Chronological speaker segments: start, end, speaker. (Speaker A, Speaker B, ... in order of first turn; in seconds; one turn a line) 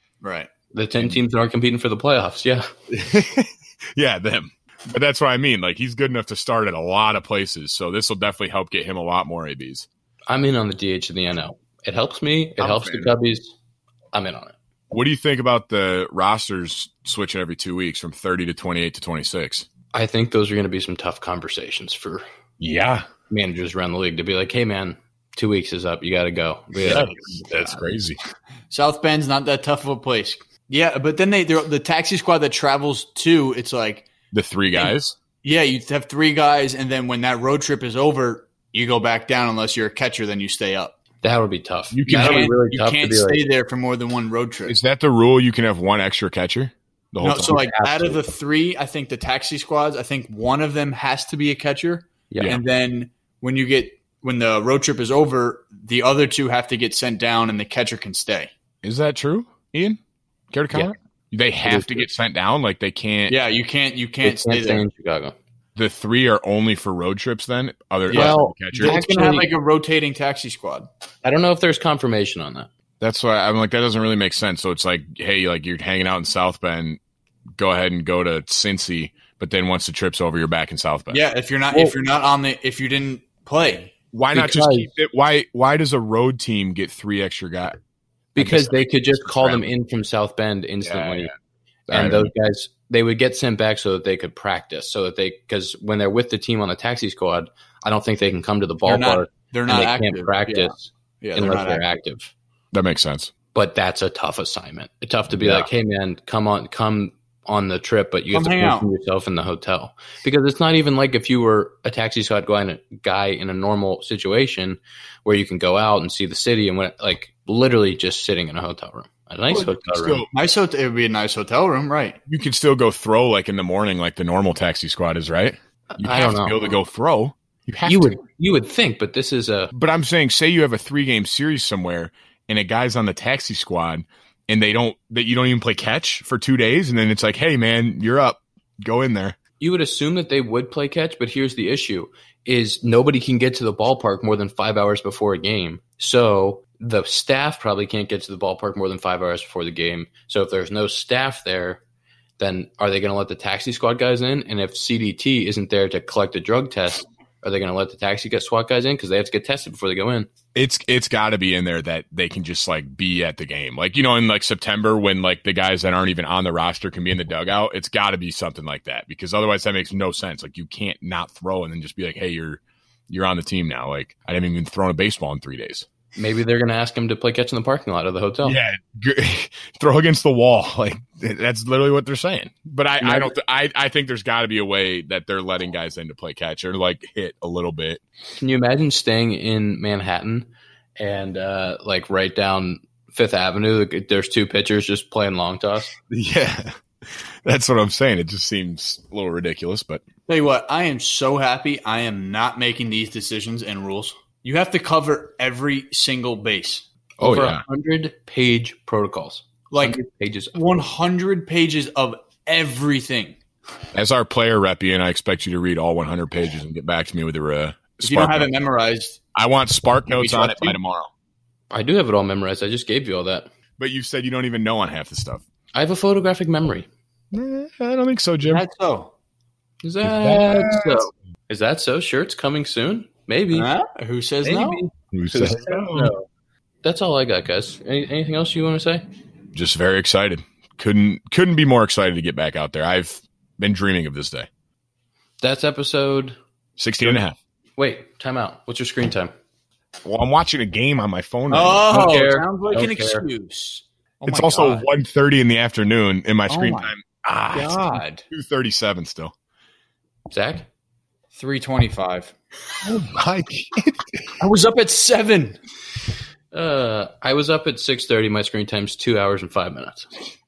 Speaker A: 0.2-0.5
Speaker B: 0.7-2.7
Speaker C: 2.9-9.9
Speaker B: 10.3-13.5
Speaker C: 12.6-13.1
Speaker B: 14.1-14.5
Speaker C: 14.9-19.6
Speaker B: 19.9-22.2
Speaker C: 22.6-23.1
Speaker B: 23.3-27.9
Speaker C: 26.8-28.2
Speaker A: 28.7-34.1
Speaker C: 34.3-35.1
Speaker A: 34.7-40.9
Speaker B: 41.2-43.4
Speaker C: 41.9-42.5
Speaker A: 42.1-44.8
Speaker C: 44.7-47.6
Speaker A: 47.2-58.5
Speaker B: 47.5-48.2
Speaker B: 52.3-52.6
Speaker C: 58.8-60.0
Speaker C: 60.5-63.4
Speaker B: 61.6-62.1
Speaker A: 63.3-64.9
Speaker B: 64.2-65.3
Speaker C: 65.8-69.0
Speaker A: 68.1-70.9
Speaker B: 68.1-69.5
Speaker B: 71.2-72.7
Speaker C: 73.0-77.0
Speaker C: 77.6-81.2
Speaker A: 81.1-83.9
Speaker B: 81.7-82.0
Speaker C: 84.1-87.8
Speaker B: 84.3-84.9
Speaker B: 88.3-91.3
Speaker C: 88.4-89.6
Speaker C: 90.8-91.3
Speaker B: 91.9-102.3
Speaker C: 91.9-92.3
Speaker A: 98.9-101.8
Speaker C: 102.7-103.3
Speaker B: 103.5-120.2
Speaker A: 108.3-108.9
Speaker C: 119.5-120.3
Speaker A: 120.3-122.2
Speaker C: 122.3-128.1
Speaker B: 126.0-126.7
Speaker B: 127.8-129.7
Speaker C: 129.7-139.4
Speaker B: 139.6-151.8
Speaker B: 152.4-160.3
Speaker C: 160.5-175.9
Speaker B: 176.2-178.6
Speaker C: 178.4-188.0
Speaker B: 183.0-183.3
Speaker B: 188.4-195.9
Speaker C: 196.1-196.8
Speaker C: 197.4-200.0
Speaker A: 200.3-206.8
Speaker B: 207.2-210.8
Speaker C: 207.2-207.6
Speaker A: 209.7-210.0
Speaker A: 210.5-213.3
Speaker C: 213.9-218.5
Speaker A: 218.0-219.2
Speaker C: 219.3-221.1
Speaker A: 220.1-220.8
Speaker B: 221.7-223.5
Speaker C: 223.8-225.4
Speaker B: 225.7-226.9
Speaker C: 227.3-228.6
Speaker A: 228.4-229.1
Speaker B: 229.8-233.7
Speaker C: 230.0-231.1
Speaker A: 233.5-234.8
Speaker B: 234.4-236.3
Speaker C: 235.1-236.1
Speaker B: 236.8-239.0
Speaker C: 239.5-244.5
Speaker B: 245.4-246.4
Speaker C: 246.8-247.4
Speaker B: 247.8-249.3
Speaker C: 250.0-252.0
Speaker A: 251.5-254.9
Speaker B: 251.9-253.3
Speaker C: 254.2-259.3
Speaker A: 256.5-256.9
Speaker A: 257.5-258.2
Speaker B: 260.3-260.7
Speaker A: 261.3-262.3
Speaker C: 262.8-264.3
Speaker A: 264.4-265.6
Speaker B: 266.5-270.2